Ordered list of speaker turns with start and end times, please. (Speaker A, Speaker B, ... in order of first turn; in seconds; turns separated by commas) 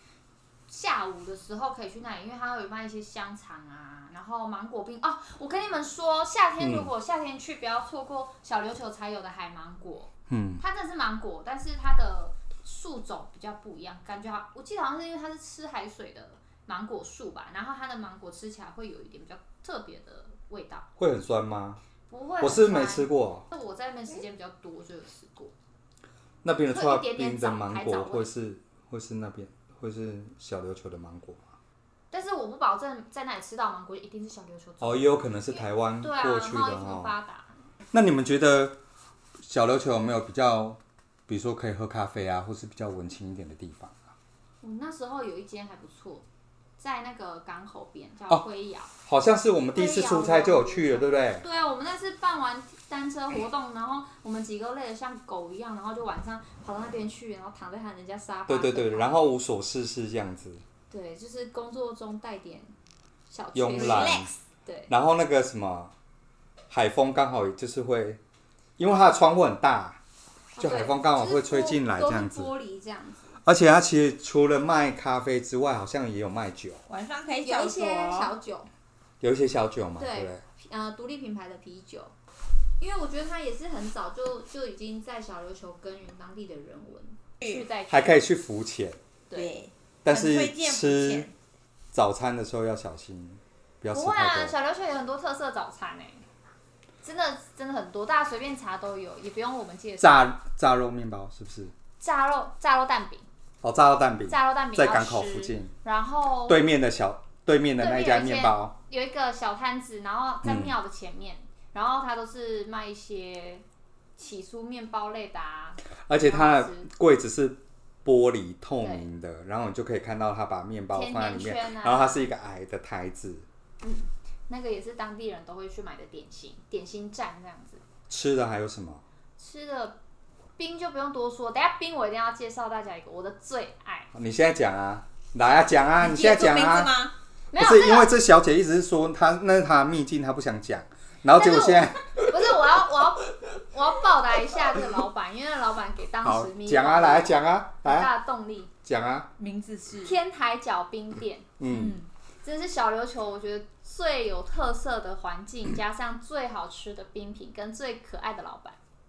Speaker A: 0.7-20.9, Speaker B: 6.6-6.9, Speaker B: 10.3-10.6, Speaker B: 21.0-21.8, Speaker A: 22.1-25.5, Speaker B: 22.4-23.4, Speaker B: 26.4-31.4, Speaker A: 26.6-28.3, Speaker A: 32.1-37.5, Speaker B: 34.8-37.1, Speaker B: 37.9-38.8, Speaker B: 39.4-44.0, Speaker A: 44.6-46.2, Speaker A: 46.8-48.9, Speaker B: 49.0-51.4, Speaker A: 49.7-59.2, Speaker B: 58.5-60.6, Speaker A: 60.9-62.7, Speaker A: 63.3-64.9, Speaker B: 63.5-64.3, Speaker C: 63.7-64.3, Speaker B: 64.9-65.9, Speaker B: 66.7-68.2, Speaker B: 68.8-70.0, Speaker A: 70.5-73.3, Speaker B: 70.6-72.5, Speaker B: 73.4-76.8, Speaker C: 76.9-78.3, Speaker A: 77.4-78.7, Speaker B: 79.2-80.4, Speaker A: 80.0-82.1, Speaker A: 82.8-88.2, Speaker B: 87.9-89.0, Speaker C: 89.3-91.3, Speaker B: 90.0-91.3, Speaker B: 91.9-94.5, Speaker A: 93.9-96.2, Speaker A: 97.0-100.3, Speaker B: 100.0-101.7, Speaker A: 102.0-103.2, Speaker B: 103.6-105.7, Speaker A: 104.3-106.6, Speaker B: 106.5-108.7, Speaker A: 107.8-113.6, Speaker B: 110.4-110.7, Speaker A: 114.2-116.9, Speaker B: 116.1-123.5, Speaker A: 118.8-119.1, Speaker A: 120.9-122.3, Speaker A: 123.8-127.8, Speaker B: 128.1-129.0, Speaker A: 129.4-130.0, Speaker A: 130.6-134.1, Speaker B: 134.1-136.9, Speaker C: 136.0-137.2, Speaker A: 137.5-138.1, Speaker B: 137.6-142.5, Speaker A: 141.3-148.7, Speaker B: 146.2-148.1, Speaker B: 148.8-149.3, Speaker C: 149.4-150.2, Speaker A: 150.0-151.5, Speaker B: 151.6-152.0, Speaker C: 151.6-152.1, Speaker A: 152.4-158.8